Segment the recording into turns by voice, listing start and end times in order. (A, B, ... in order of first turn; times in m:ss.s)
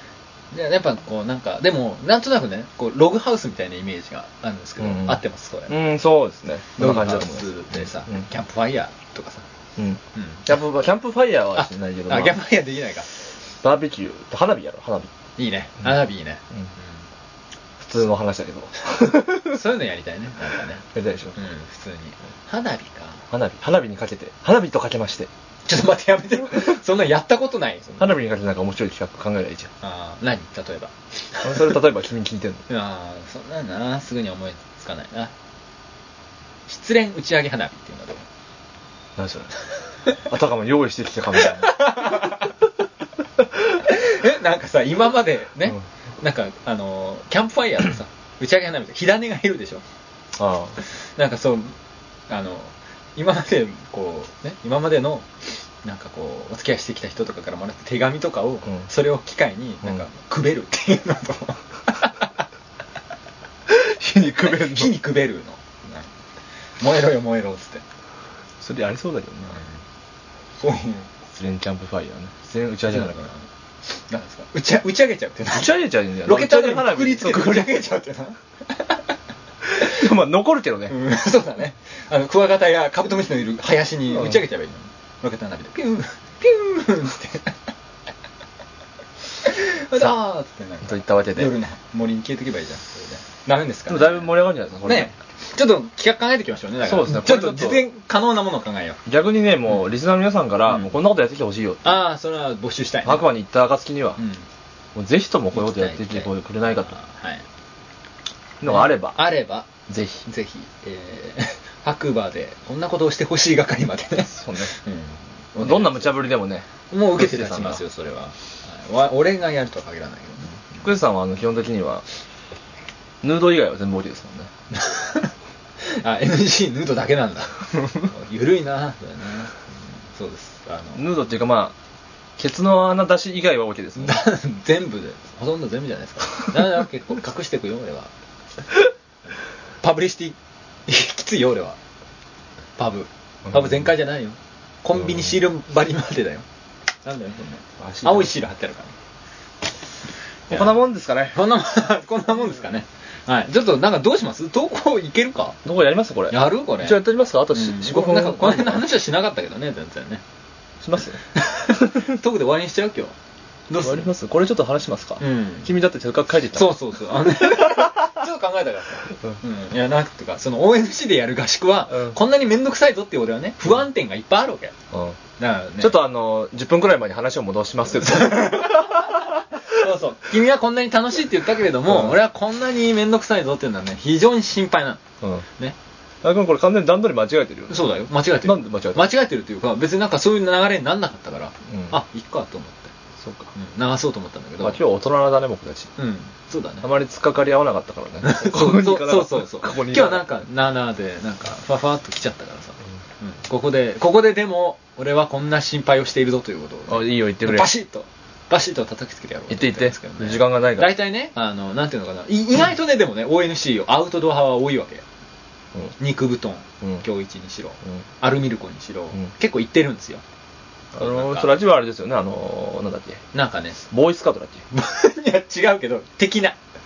0:00.5-0:05.7 A
0:04.8-0:07.5 B
0:06.8-0:09.5 A
0:09.8-0:12.4 B
0:10.2-0:10.4 A
0:11.6-0:13.1 A
0:13.6-0:15.1 B
0:15.4-0:16.9 A
0:17.8-0:19.6 B
0:19.4-0:20.8 A
0:20.9-0:21.4 B
0:21.4-0:23.2 A
0:23.3-0:25.3 B
0:25.7-0:28.1 A
0:28.0-0:29.7 B
0:29.8-0:31.7 A
0:31.4-0:32.6 B
0:32.7-0:35.3 A
0:36.7-0:38.2 A
0:39.2-0:39.5 B
0:40.2-0:41.8 B
0:41.6-0:42.5 A
0:43.8-0:49.8 A
0:50.4-0:50.8 B
0:50.8-0:51.8 A
0:52.3-1:02.3 A
1:03.7-1:04.9 B
1:04.4-1:06.1 A
1:06.8-1:07.8 A
1:08.6-1:09.6 B
1:10.6-1:11.1 A
1:11.3-1:13.2 B
1:12.9-1:13.4 A
1:13.9-1:18.9 A
1:15.5-1:17.9 B
1:19.7-1:21.0 B
1:20.9-1:27.5 A
1:29.4-1:34.3 A
1:30.8-1:31.5 B
1:33.9-1:35.1 B
1:34.8-1:39.0 A
1:36.8-1:37.8 B
1:39.1-1:42.0 B
1:41.8-1:43.2 A
1:43.0-1:44.2 B
1:44.2-1:44.4 A
1:45.0-1:47.0 B
1:45.5-1:46.3 A
1:46.8-1:47.4 A
1:48.6-1:49.2 B
1:48.6-1:49.7 A
1:49.9-1:50.2 B
1:50.2-1:56.2 A
1:54.3-1:54.7 B
1:55.6-1:57.8 B
1:56.9-2:00.6 A
2:00.8-2:02.0 B
2:03.2-2:04.5 B
2:04.7-2:05.3 A
2:05.8-2:09.6 A
2:10.1-2:11.0 A
2:11.0-2:11.8 B
2:12.4-2:14.2 B
2:14.0-2:18.1 A
2:19.8-2:21.8 A
2:22.8-2:26.5 A
2:23.5-2:23.8 B
2:27.0-2:29.0 A
2:27.8-2:28.3 B
2:30.5-2:31.4 B
2:31.3-2:35.6 A
2:35.6-2:38.8 B
2:36.3-2:37.0 A
2:37.5-2:40.2 A
2:40.8-2:41.2 B
2:41.4-2:43.1 A
2:43.7-2:44.1 A
2:43.8-2:47.9 B
2:45.2-2:45.7 A
2:46.5-2:54.7 A
2:54.9-2:55.2 B
2:55.4-2:56.0 A
2:55.8-2:59.2 B
2:58.0-3:05.0 A
3:01.9-3:02.2 B
3:06.2-3:07.9 B
3:07.7-3:12.9 A
3:08.4-3:09.0 B
3:13.2-3:13.5 B
3:13.5-3:14.8 A
3:14.6-3:15.9 B
3:16.0-3:16.9 A
3:16.8-3:20.3 B
3:18.2-3:35.0 A
3:26.9-3:27.7 B
3:29.5-3:31.0 B
3:36.0-3:40.2 A
3:40.9-3:43.2 B
3:41.0-3:41.6 A
3:43.3-3:43.8 A
3:43.9-3:44.6 B
3:44.7-3:46.6 A